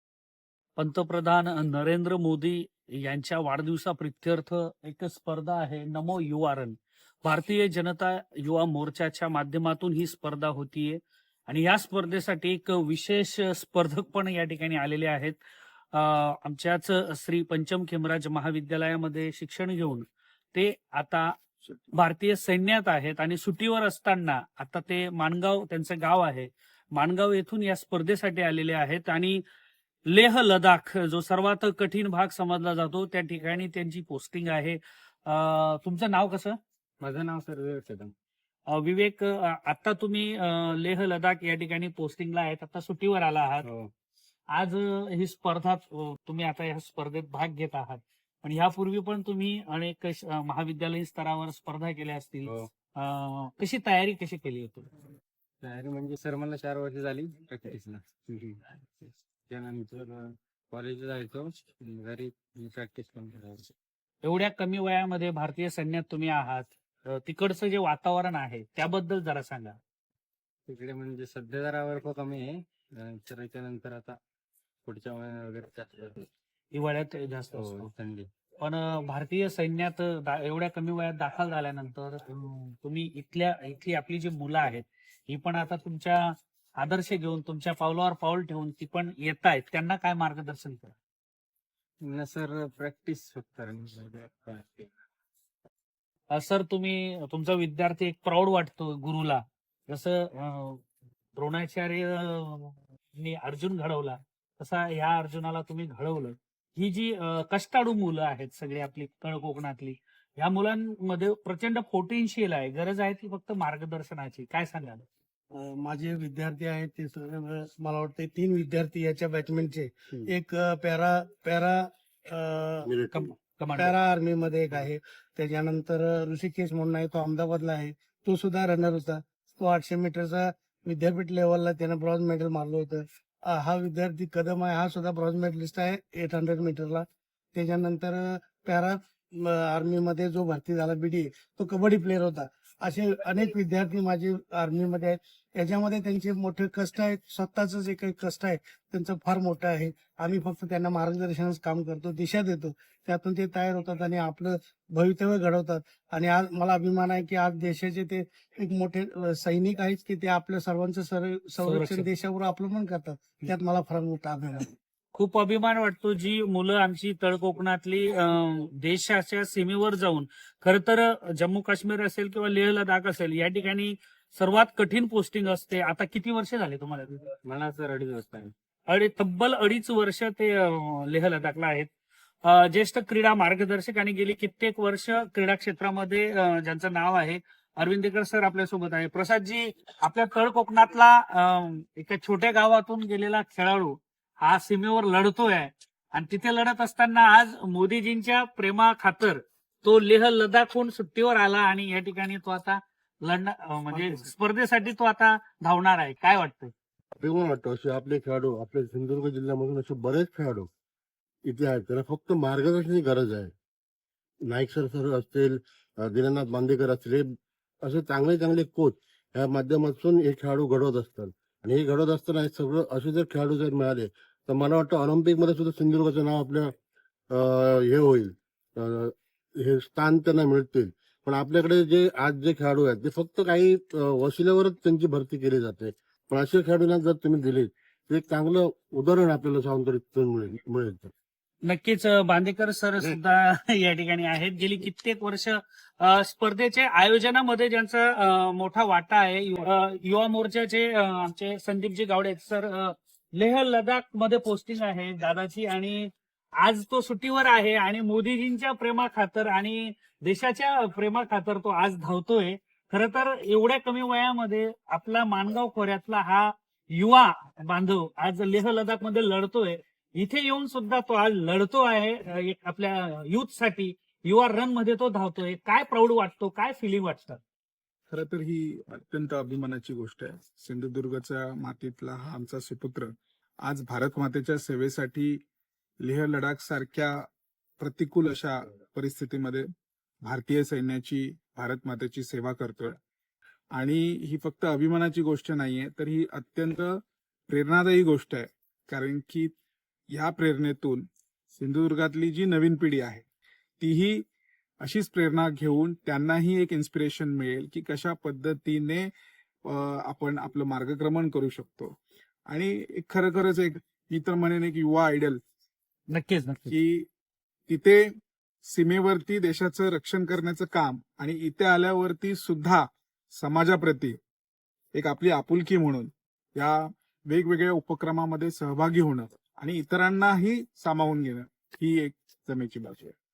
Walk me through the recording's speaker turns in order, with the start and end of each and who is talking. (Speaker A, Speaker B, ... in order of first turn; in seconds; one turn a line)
Speaker A: 0.8-15.4
Speaker A: 15.9-21.4
Speaker A: 21.9-29.4
Speaker A: 30.1-36.6
Speaker B: 37.0-38.1
Speaker A: 38.7-43.7
Speaker B: 43.6-43.9
Speaker A: 44.5-54.9
Speaker B: 55.6-63.7
Speaker A: 64.2-69.8
Speaker B: 70.7-74.2
Speaker B: 74.8-76.3
Speaker A: 76.7-77.9
Speaker B: 77.5-78.3
Speaker A: 78.6-91.0
Speaker B: 92.0-94.9
Speaker A: 96.3-100.8
Speaker A: 101.4-115.1
Speaker C: 115.5-122.9
Speaker D: 122.8-123.3
Speaker A: 123.1-124.0
Speaker C: 123.8-164.7
Speaker A: 161.6-162.1
Speaker A: 165.2-177.3
Speaker B: 177.4-178.5
Speaker A: 178.9-181.9
Speaker A: 182.4-206.7
Speaker D: 207.2-210.7
Speaker D: 211.4-213.5
Speaker D: 214.4-226.7
Speaker D: 227.3-241.1
Speaker A: 241.6-277.4
Speaker E: 278.1-285.4
Speaker E: 286.0-287.3
Speaker E: 287.8-289.7
Speaker E: 290.2-293.0
Speaker E: 293.7-299.5
Speaker E: 300.1-303.2
Speaker E: 303.8-304.2
Speaker E: 304.8-309.1
Speaker E: 309.6-315.4
Speaker A: 316.1-316.8
Speaker E: 316.7-317.1
Speaker E: 317.7-318.1
Speaker E: 318.6-324.2
Speaker E: 324.9-333.1